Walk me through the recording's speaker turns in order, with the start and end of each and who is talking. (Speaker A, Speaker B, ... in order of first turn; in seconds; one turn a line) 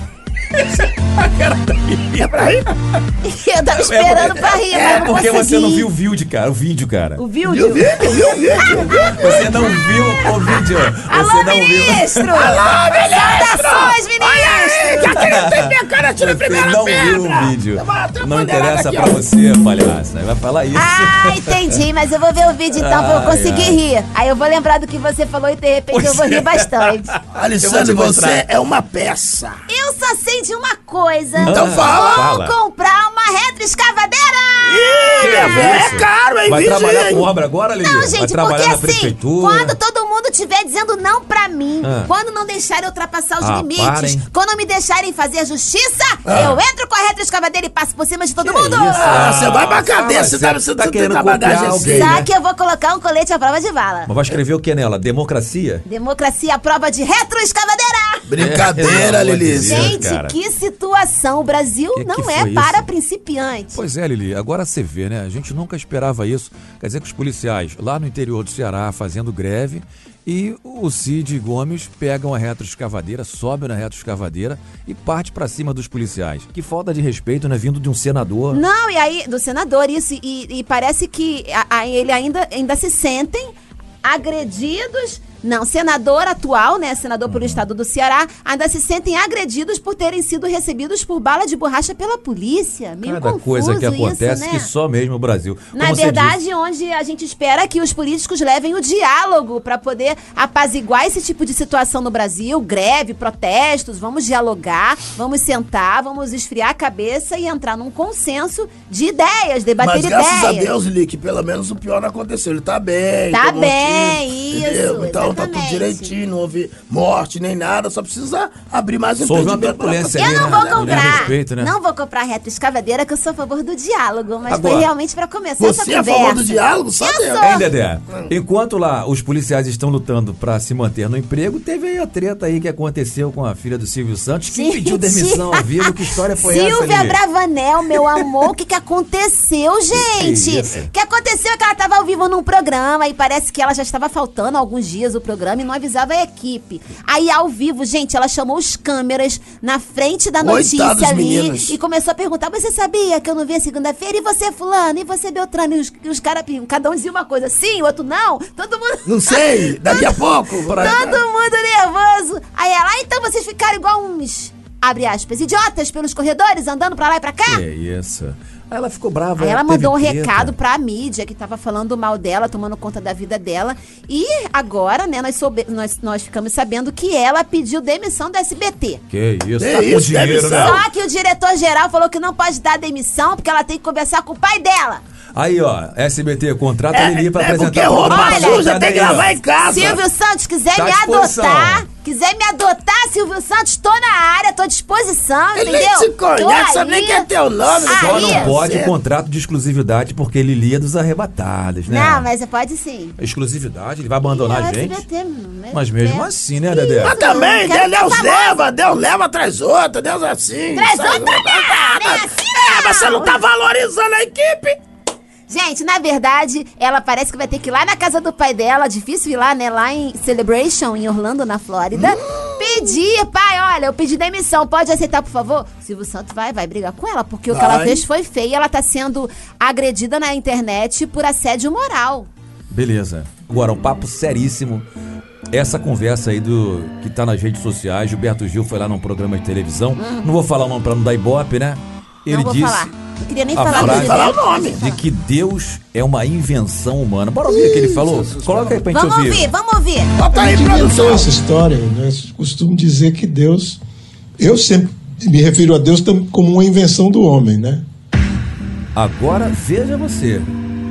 Speaker A: 0.5-2.3
Speaker B: 2.2-2.7
Speaker C: 3.2-5.9
Speaker A: 3.7-7.3
Speaker B: 4.6-5.1
Speaker C: 7.2-8.9
Speaker B: 7.4-9.8
Speaker A: 9.1-12.5
Speaker C: 10.3-15.1
Speaker B: 12.3-19.2
Speaker A: 15.1-15.6
Speaker A: 16.1-21.8
Speaker C: 20.7-27.1
Speaker A: 22.7-23.8
Speaker A: 25.9-28.4
Speaker B: 27.3-29.6
Speaker C: 29.7-36.0
Speaker A: 31.4-32.5
Speaker B: 31.4-32.3
Speaker B: 34.6-37.3
Speaker A: 35.2-39.8
Speaker C: 37.8-49.3
Speaker A: 41.8-42.1
Speaker A: 43.4-44.3
Speaker B: 46.2-46.6
Speaker A: 46.3-46.6
Speaker A: 48.4-52.3
Speaker B: 48.9-52.1
Speaker C: 51.9-54.1
Speaker A: 54.0-55.8
Speaker C: 55.9-58.3
Speaker B: 58.3-60.0
Speaker A: 58.4-60.4
Speaker C: 59.6-63.8
Speaker A: 61.9-62.9
Speaker A: 63.7-78.6
Speaker C: 78.5-83.5
Speaker C: 84.0-94.7
Speaker A: 87.3-87.6
Speaker A: 93.0-96.4
Speaker C: 95.7-110.7
Speaker B: 109.8-121.3
Speaker C: 113.3-116.1
Speaker A: 119.2-121.7
Speaker C: 120.1-127.7
Speaker A: 124.5-124.9
Speaker B: 125.6-127.6
Speaker A: 127.4-137.2
Speaker C: 134.5-167.6
Speaker A: 139.9-140.9
Speaker B: 150.4-151.7
Speaker B: 159.1-161.2
Speaker A: 167.4-170.5
Speaker C: 169.4-179.0
Speaker A: 179.1-180.8
Speaker B: 179.6-180.8
Speaker C: 180.5-185.0
Speaker A: 185.3-189.4
Speaker B: 186.9-190.0
Speaker C: 188.1-188.7
Speaker C: 189.6-197.3
Speaker A: 190.7-191.9
Speaker B: 195.5-198.9
Speaker A: 197.8-202.3
Speaker C: 197.8-198.6
Speaker C: 201.8-203.2
Speaker A: 203.2-205.0
Speaker C: 204.2-206.3
Speaker A: 205.7-207.2
Speaker B: 206.7-214.8
Speaker C: 207.0-208.6
Speaker C: 210.7-213.4
Speaker C: 215.5-232.3
Speaker B: 221.9-222.5
Speaker B: 227.5-228.0
Speaker A: 232.7-234.8
Speaker A: 235.5-242.9
Speaker C: 239.9-240.3
Speaker C: 242.3-245.0
Speaker A: 243.5-249.5
Speaker B: 243.7-244.8
Speaker B: 247.5-248.2
Speaker C: 248.9-250.1
Speaker B: 250.2-251.3
Speaker D: 250.3-253.8
Speaker D: 254.4-257.8
Speaker A: 258.9-260.5